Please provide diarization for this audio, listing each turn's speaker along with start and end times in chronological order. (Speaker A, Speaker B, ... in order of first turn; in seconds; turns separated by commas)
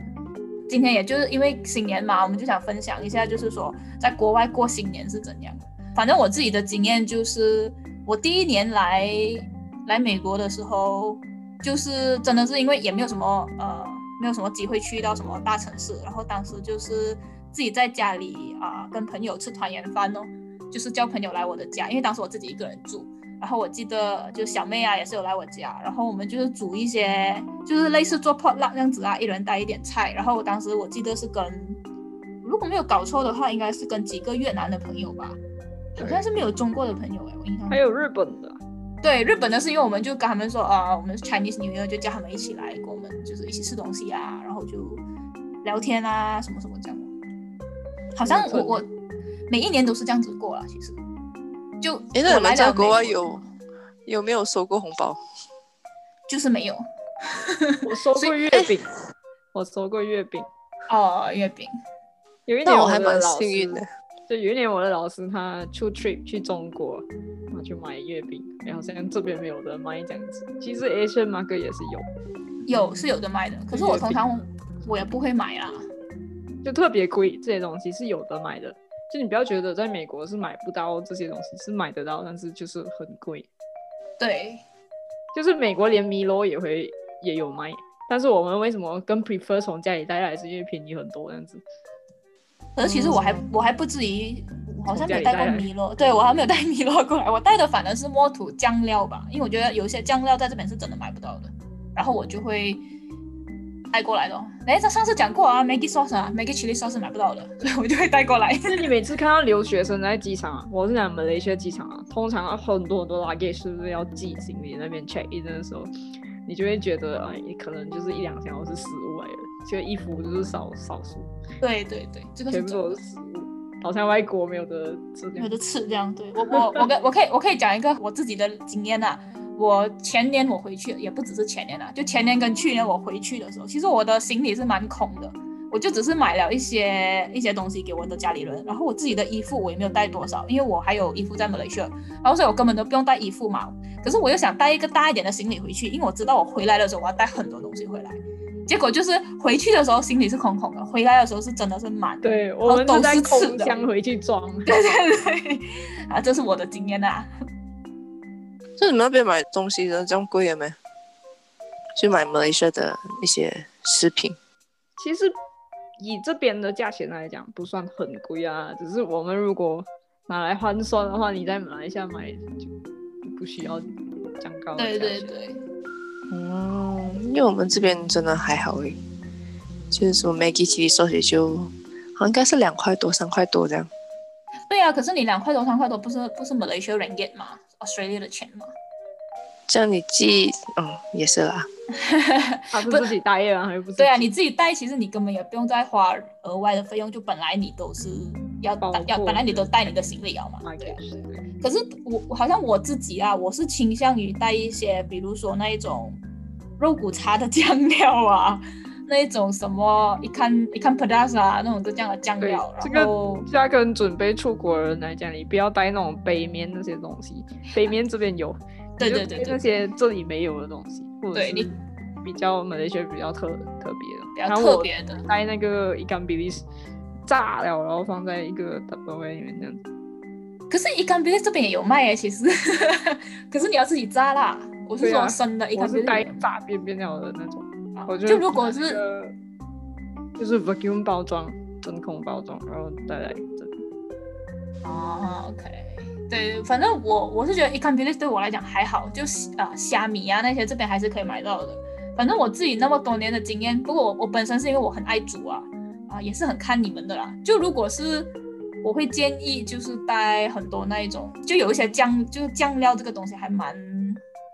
Speaker A: 0.7-31.8, Speaker A: 32.4-35.4, Speaker A: 36.0-37.8, Speaker B: 36.0-36.2, Speaker B: 37.7-38.6, Speaker A: 39.0-45.0, Speaker A: 45.6-47.1, Speaker A: 48.1-48.9, Speaker B: 48.2-48.8, Speaker A: 49.5-51.0, Speaker A: 51.8-53.5, Speaker C: 52.1-53.4, Speaker C: 54.0-55.2, Speaker A: 56.3-58.4, Speaker B: 57.8-58.9, Speaker B: 59.5-60.5, Speaker A: 60.9-61.7, Speaker B: 62.5-72.0, Speaker C: 62.6-63.8, Speaker A: 72.7-75.9, Speaker B: 73.7-74.2, Speaker B: 76.6-83.5, Speaker A: 84.2-84.6, Speaker B: 85.3-91.6, Speaker A: 92.8-102.8, Speaker B: 92.8-93.4, Speaker B: 94.9-95.7, Speaker A: 103.9-108.8, Speaker B: 108.7-115.9, Speaker B: 116.5-121.3, Speaker A: 121.6-123.0, Speaker B: 122.5-125.5, Speaker A: 125.4-153.7, Speaker B: 126.5-126.8, Speaker B: 152.2-154.8, Speaker A: 154.7-157.3, Speaker C: 158.8-160.8, Speaker C: 162.0-164.4, Speaker B: 165.0-165.3, Speaker B: 166.0-172.7, Speaker B: 173.2-175.3, Speaker A: 174.8-175.6, Speaker C: 176.3-179.0, Speaker C: 179.9-183.9, Speaker A: 184.7-188.7, Speaker C: 189.7-191.7, Speaker A: 191.9-193.1, Speaker B: 192.7-194.3, Speaker A: 194.0-201.0, Speaker B: 198.8-199.7, Speaker B: 200.6-201.4, Speaker A: 201.6-206.2, Speaker A: 206.8-213.4, Speaker B: 212.4-226.6, Speaker A: 219.0-219.6, Speaker A: 221.3-221.7, Speaker A: 224.3-225.2, Speaker B: 227.2-229.8, Speaker A: 230.7-236.4, Speaker B: 235.0-239.3, Speaker A: 237.9-239.0, Speaker B: 240.4-243.8, Speaker A: 244.8-258.3, Speaker A: 258.8-264.2